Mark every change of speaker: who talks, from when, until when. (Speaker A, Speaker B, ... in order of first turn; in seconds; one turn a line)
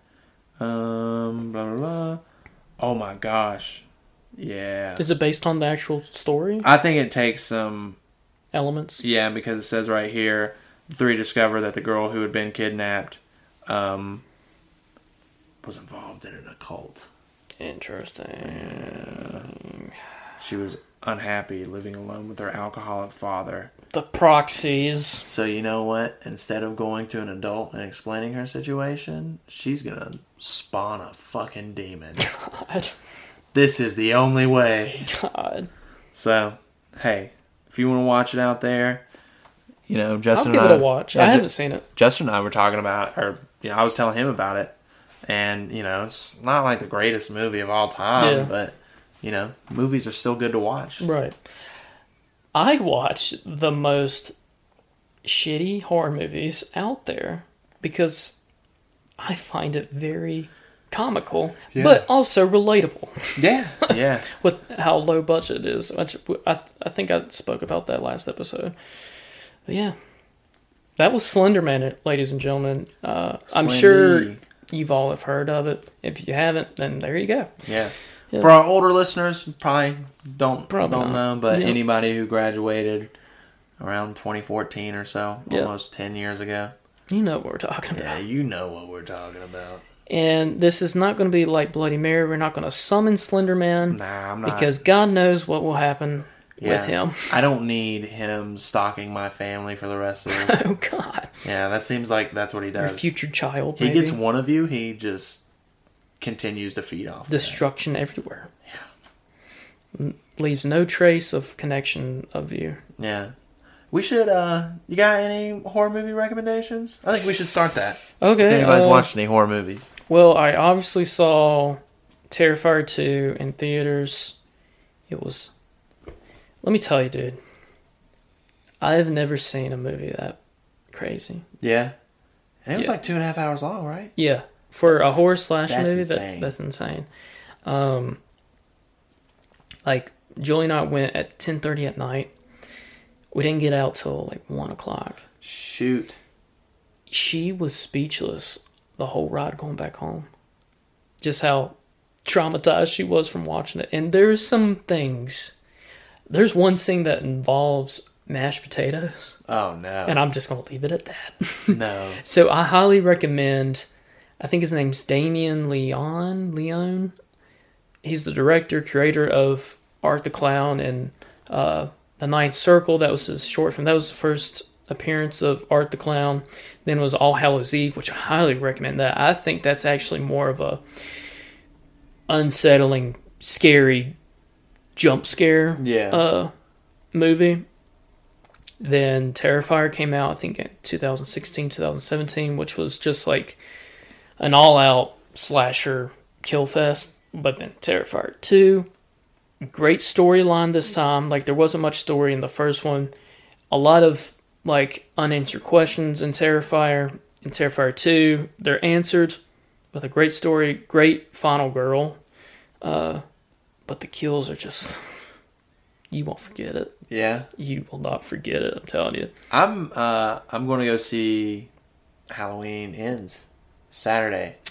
Speaker A: 0.6-2.2
Speaker A: 2.8-3.8
Speaker A: 4.4-5.1
Speaker B: 5.0-6.7
Speaker A: 6.6-8.0
Speaker B: 8.5-9.0
Speaker A: 9.0-14.2
Speaker A: 15.6-17.1
Speaker B: 17.6-19.8
Speaker A: 18.4-19.5
Speaker A: 20.4-23.7
Speaker B: 23.9-25.2
Speaker A: 25.2-32.3
Speaker B: 32.2-32.9
Speaker A: 33.5-35.1
Speaker B: 35.1-35.7
Speaker A: 36.1-39.0
Speaker A: 39.9-44.7
Speaker B: 40.3-41.9
Speaker A: 45.2-51.0
Speaker B: 48.2-48.5
Speaker B: 51.0-51.4
Speaker B: 52.5-54.3
Speaker B: 55.2-58.4
Speaker B: 59.2-68.7
Speaker A: 61.7-62.0
Speaker A: 63.4-64.3
Speaker B: 69.7-70.0
Speaker B: 71.0-77.5
Speaker A: 73.5-74.4
Speaker A: 77.6-83.1
Speaker B: 80.7-81.8
Speaker A: 83.8-86.7
Speaker B: 87.1-88.2
Speaker A: 87.9-89.8
Speaker B: 90.1-97.3
Speaker A: 93.9-94.8
Speaker A: 96.6-100.6
Speaker B: 100.3-101.3
Speaker A: 101.4-103.2
Speaker B: 102.8-104.2
Speaker A: 103.8-105.4
Speaker A: 106.2-107.6
Speaker B: 107.3-108.5
Speaker B: 110.0-112.8
Speaker A: 113.0-113.3
Speaker A: 113.9-119.9
Speaker B: 118.2-119.1
Speaker B: 120.1-124.3
Speaker B: 125.1-125.5
Speaker B: 126.6-127.4
Speaker B: 128.8-130.4
Speaker B: 130.9-131.4
Speaker A: 131.6-131.9
Speaker A: 132.7-134.1
Speaker B: 134.2-137.1
Speaker A: 135.7-136.5
Speaker B: 137.7-138.2
Speaker B: 139.8-142.3
Speaker B: 143.3-145.2
Speaker A: 145.4-146.2
Speaker B: 147.1-150.3
Speaker B: 151.2-155.6
Speaker B: 156.3-159.4
Speaker A: 159.5-160.2
Speaker B: 160.1-163.9
Speaker A: 161.7-162.2
Speaker B: 164.4-167.1
Speaker B: 168.0-180.8
Speaker B: 182.3-184.2
Speaker B: 185.0-186.5
Speaker A: 185.8-186.2
Speaker B: 187.1-187.6
Speaker B: 188.8-193.6
Speaker B: 194.4-198.9
Speaker B: 199.6-203.1
Speaker B: 203.7-209.4
Speaker B: 209.9-212.2
Speaker B: 212.8-213.2
Speaker B: 213.9-215.0
Speaker B: 216.1-216.9
Speaker A: 217.1-217.5
Speaker B: 217.6-219.3
Speaker A: 219.5-221.7
Speaker A: 222.3-224.6